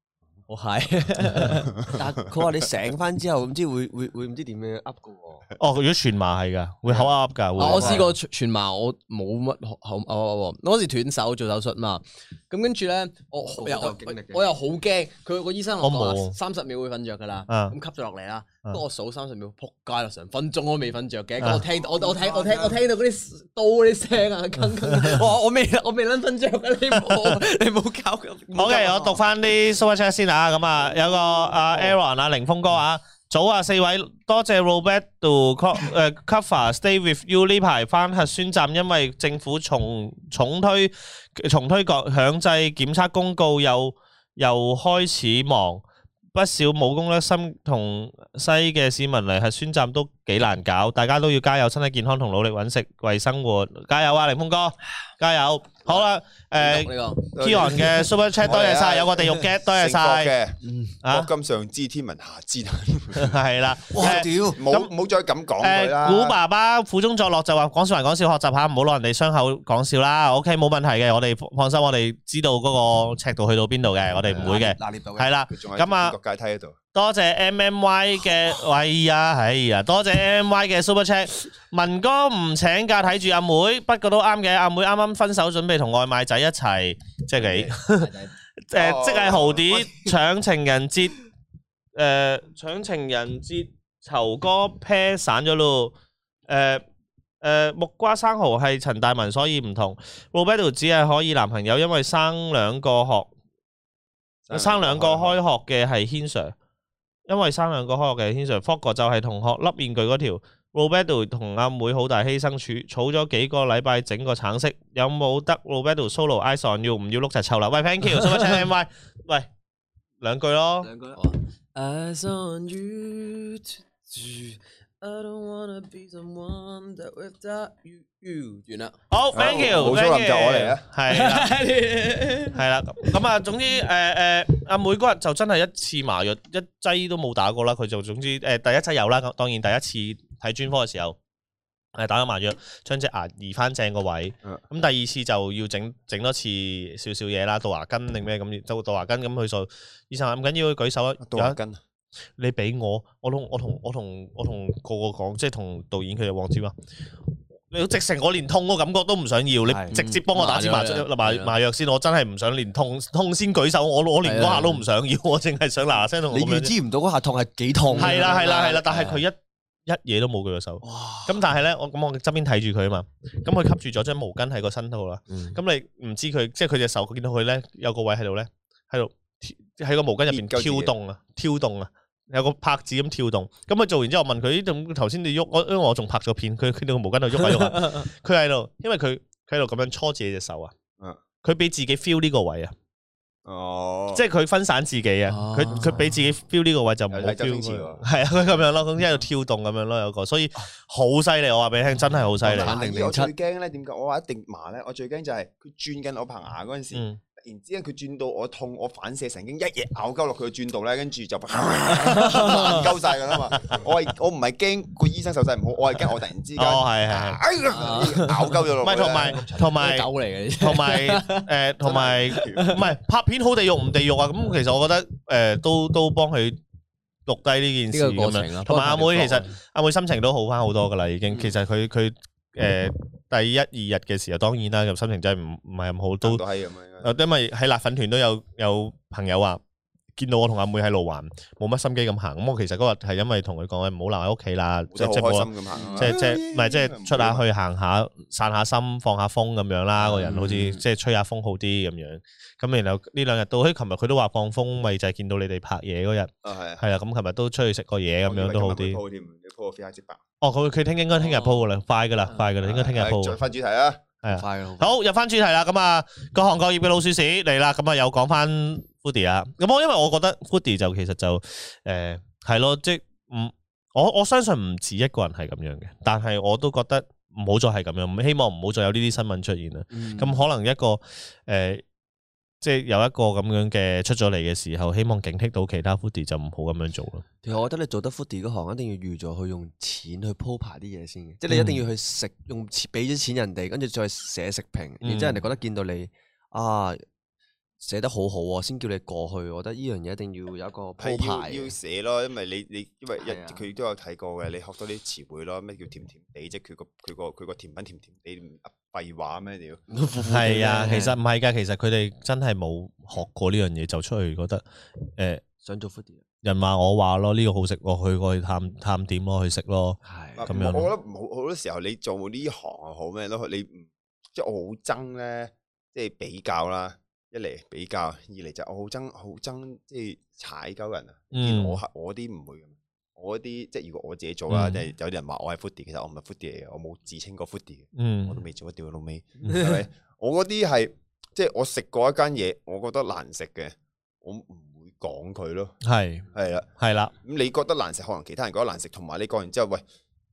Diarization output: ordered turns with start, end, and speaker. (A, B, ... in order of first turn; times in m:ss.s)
0:00.5-0:01.8 A
0:01.8-0:02.4 B
0:01.9-0:05.5 C
0:05.6-0:08.0 D
0:07.6-0:29.2 A
0:07.6-0:08.0 C
0:13.5-0:14.5 C
0:15.8-0:16.4 D
0:17.5-0:17.8 D
0:21.7-0:22.8 C
0:28.6-0:45.8 D
0:46.3-1:00.3 D
0:56.6-0:57.2 A
0:57.4-1:03.4 B
1:01.0-1:01.3 D
1:03.2-1:04.9 D
1:03.9-1:04.6 C
1:04.0-1:06.4 B
1:05.6-1:16.2 D
1:14.2-1:15.3 C
1:15.5-1:16.8 B
1:16.9-1:28.1 D
1:27.4-1:27.9 B
1:28.7-1:31.2 D
1:28.7-1:29.7 B
1:32.0-1:35.9 D
1:36.5-1:36.8 D
1:37.4-1:43.3 D
1:44.5-1:45.4 B
1:44.5-1:46.6 D
1:47.3-1:59.5 D
2:00.2-2:00.9 D
2:00.8-2:01.2 C
2:01.1-2:09.0 A
2:09.1-2:11.5 D
2:09.3-2:10.8 B
2:11.1-2:12.6 A
2:12.5-2:21.2 D
2:22.0-2:31.6 D
2:31.2-2:31.8 B
2:32.4-2:36.7 D
2:37.7-2:46.7 D
2:39.7-2:40.0 C
2:39.9-2:41.5 A
2:44.2-2:44.8 A
2:46.3-2:49.2 C
2:47.9-2:48.8 A
2:48.0-3:10.7 D
2:50.8-2:51.4 C
2:55.3-2:55.6 C
3:00.3-3:00.9 B
3:11.4-3:12.7 D
3:13.4-3:14.2 B
3:14.1-3:22.8 D
3:15.3-3:16.1 A
3:15.7-3:16.0 C
3:17.1-3:18.1 B
3:22.3-3:23.3 C
3:22.4-3:39.8 B
3:26.9-3:27.2 D
3:32.1-3:32.8 A
3:36.6-3:37.4 D
3:37.7-3:38.5 A
3:38.8-3:40.1 D
3:39.3-3:41.5 A
3:40.6-3:46.6 D
3:41.8-3:42.8 B
3:42.4-3:42.8 A
3:47.3-3:56.4 D
3:47.9-3:49.6 A
3:56.2-3:57.1 B
3:57.0-3:59.6 D
4:00.2-4:19.0 D
4:04.9-4:07.4 B
4:05.8-4:06.1 C
4:10.0-4:10.8 C
4:16.4-4:16.8 B
4:18.2-4:20.2 B
4:20.4-4:23.4 D
4:21.2-4:21.6 A
4:22.6-4:24.0 B
4:24.2-4:41.8 D
4:24.3-4:25.0 C
4:39.9-4:40.4 C
4:42.6-4:47.3 D
4:47.4-4:57.0 C
4:51.5-4:51.8 D
4:55.0-4:55.5 D
4:57.8-5:01.7 C
5:01.0-5:09.8 B
5:03.2-5:03.6 C
5:09.9-5:11.2 C
5:10.3-5:14.6 D
5:15.2-5:15.4 D
5:15.6-5:16.2 C
5:16.4-5:20.9 D
5:20.0-5:20.5 C
5:20.4-5:45.8 B
5:31.3-5:31.8 D
5:34.5-5:34.8 D
5:38.0-5:38.4 D
5:39.4-5:39.7 D
5:45.8-5:46.2 D
5:46.3-5:49.8 B
5:46.8-5:47.1 D